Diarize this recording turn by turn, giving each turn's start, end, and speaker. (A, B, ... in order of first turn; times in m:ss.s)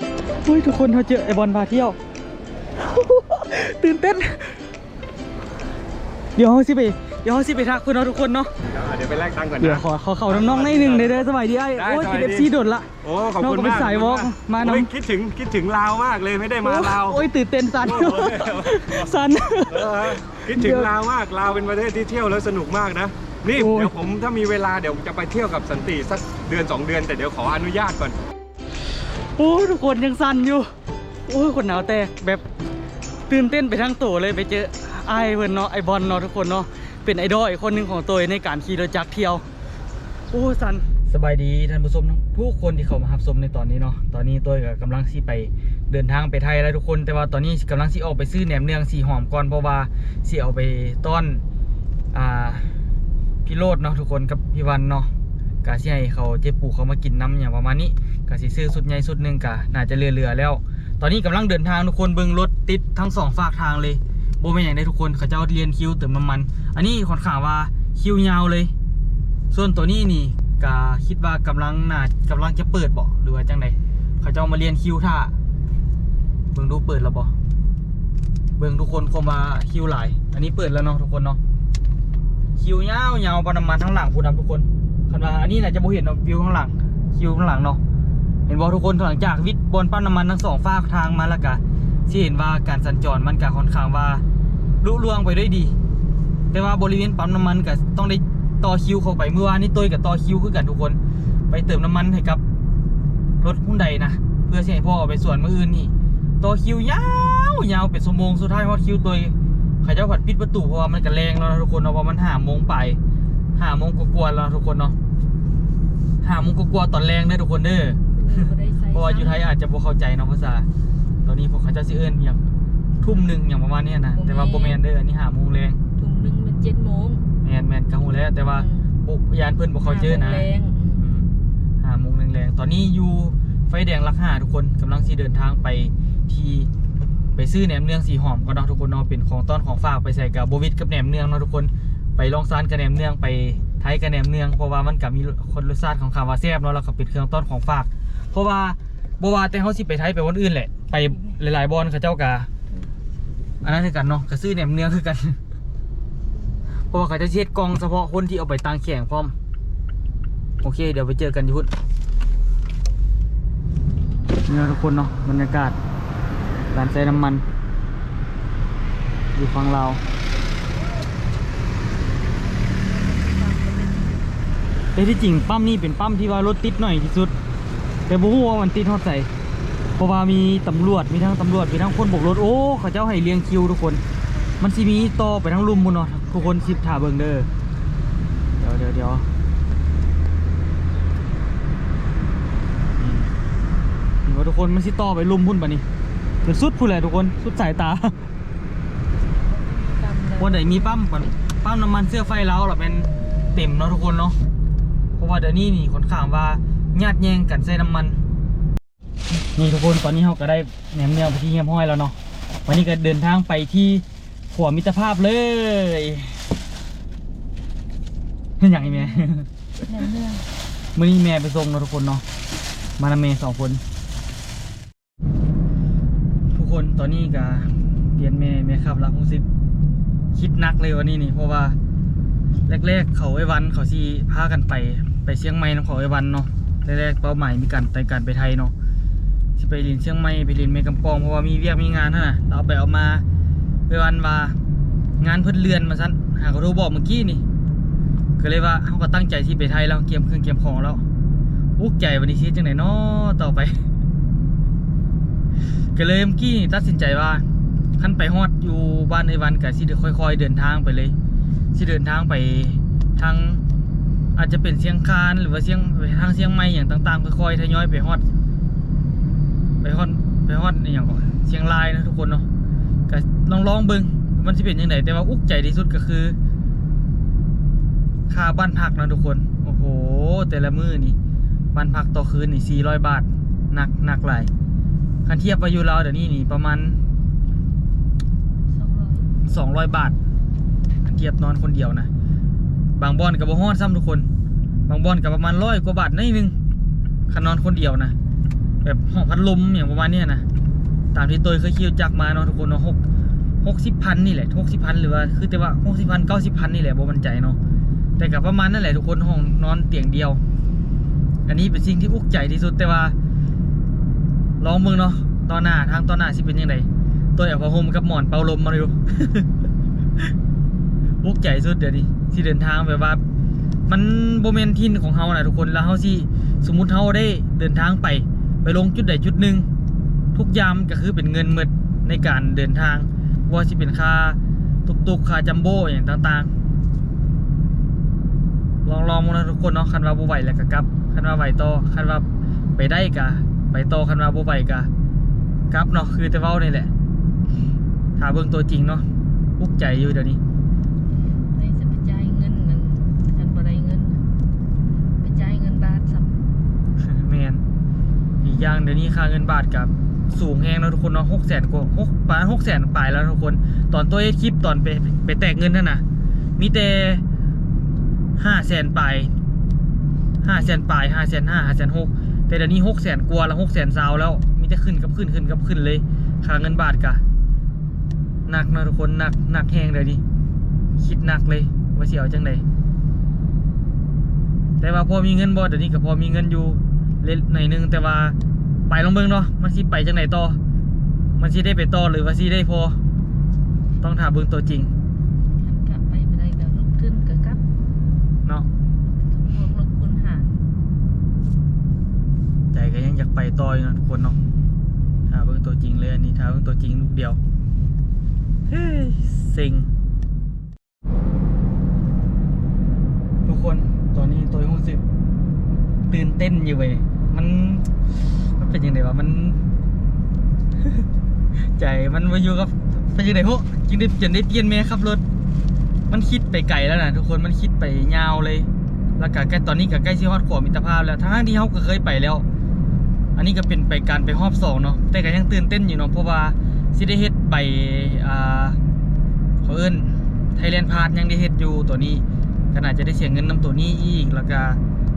0:00.4-0:02.0 A
0:02.8-0:04.6 A
0:06.4-0:08.5 A
0:08.7-0:12.5 B
0:09.6-0:12.9 A
0:13.0-0:17.2 B
0:13.4-0:14.9 A
0:16.6-0:20.9 A
0:17.8-0:19.1 B
0:19.7-0:28.2 B
0:23.6-0:23.9 A
0:29.4-0:30.7 A
0:31.3-0:32.4 A
0:33.3-0:39.4 A
0:40.3-0:51.4 A
0:52.1-0:52.7 A
0:53.4-0:55.1 A
0:55.6-1:08.7 A
1:09.5-1:15.3 A
1:16.5-1:17.3 A
1:18.6-1:21.4 A
1:22.6-1:27.8 A
1:28.5-1:34.2 A
1:34.8-1:35.7 A
1:36.5-1:41.0 A
1:41.5-1:42.4 A
1:43.4-1:53.0 A
1:53.6-1:55.0 A
1:56.2-2:00.7 A
1:58.1-1:59.5 C
2:01.2-2:02.4 A
2:03.0-2:05.8 A
2:03.1-2:03.4 C
2:04.1-2:04.8 C
2:06.0-2:07.3 C
2:07.4-2:11.3 A
2:08.4-2:09.0 C
2:09.8-2:11.0 C
2:11.8-2:16.7 A
2:17.4-2:32.5 A
2:33.6-2:35.4 A
2:36.9-2:39.4 A
2:40.6-2:41.7 A
2:44.5-2:45.8 A
2:46.7-2:47.4 A
2:49.4-2:50.0 A
2:52.7-2:54.2 C
2:55.0-2:57.3 A
2:58.1-2:59.3 A
3:00.0-3:04.0 A
3:04.6-3:07.5 A
3:08.6-3:09.3 A
3:13.0-3:13.3 A
3:14.2-3:15.8 A
3:16.4-3:18.2 A
3:19.4-3:21.2 C
3:20.4-3:24.4 A
3:25.2-3:28.2 A
3:29.6-3:36.4 A
3:38.6-3:39.5 A
3:38.7-3:39.3 C
3:39.9-3:40.5 C
3:41.0-3:42.2 A
3:43.0-3:43.8 A
3:46.5-3:49.4 A
3:50.3-3:51.8 A
3:52.7-3:58.7 A
3:59.6-4:03.2 A
4:03.9-4:04.6 A
4:05.2-4:07.4 A
4:08.4-4:11.0 A
4:11.8-4:13.8 A
4:16.0-4:17.4 A
4:18.0-4:21.2 A
4:21.8-4:23.6 A
4:24.4-4:28.2 A
4:29.8-4:32.5 A
4:33.1-4:36.4 A
4:38.3-4:41.2 A
4:41.7-4:44.5 A
4:45.3-4:47.0 A
4:48.7-4:49.3 C
4:49.5-4:50.2 A
4:51.0-4:52.1 A
4:53.0-4:54.3 A
4:54.9-4:56.6 A
4:57.3-4:58.2 A
4:58.8-5:00.4 A
5:01.1-5:03.0 A
5:03.6-5:07.6 A
5:08.2-5:10.4 A
5:11.5-5:13.1 A
5:14.6-5:19.5 A
5:21.2-5:23.2 A
5:23.9-5:29.7 A
5:30.4-5:36.5 A
5:38.8-5:42.3 A
5:42.8-5:44.9 A
5:45.7-5:46.9 A
5:48.2-5:49.0 A
5:49.6-5:50.4 A
5:51.5-5:54.2 C
5:55.2-5:56.5 C
5:57.0-5:57.6 A
5:58.4-6:06.0 A
6:06.6-6:07.2 A
6:08.4-6:09.3 A
6:10.4-6:17.2 A
6:18.5-6:20.2 A
6:21.0-6:22.6 A
6:24.8-6:28.4 A
6:28.9-6:30.6 A
6:31.4-6:33.0 A
6:34.0-6:34.9 A
6:35.6-6:37.6 C
6:39.2-6:40.6 C
6:42.7-6:44.4 A
6:45.3-6:47.4 A
6:48.7-6:49.9 A
6:53.5-6:55.0 A
6:56.1-6:57.9 A
6:58.6-6:59.6 A
7:01.8-7:05.2 A
7:06.1-7:12.4 A
7:13.4-7:18.8 A
7:19.6-7:24.8 A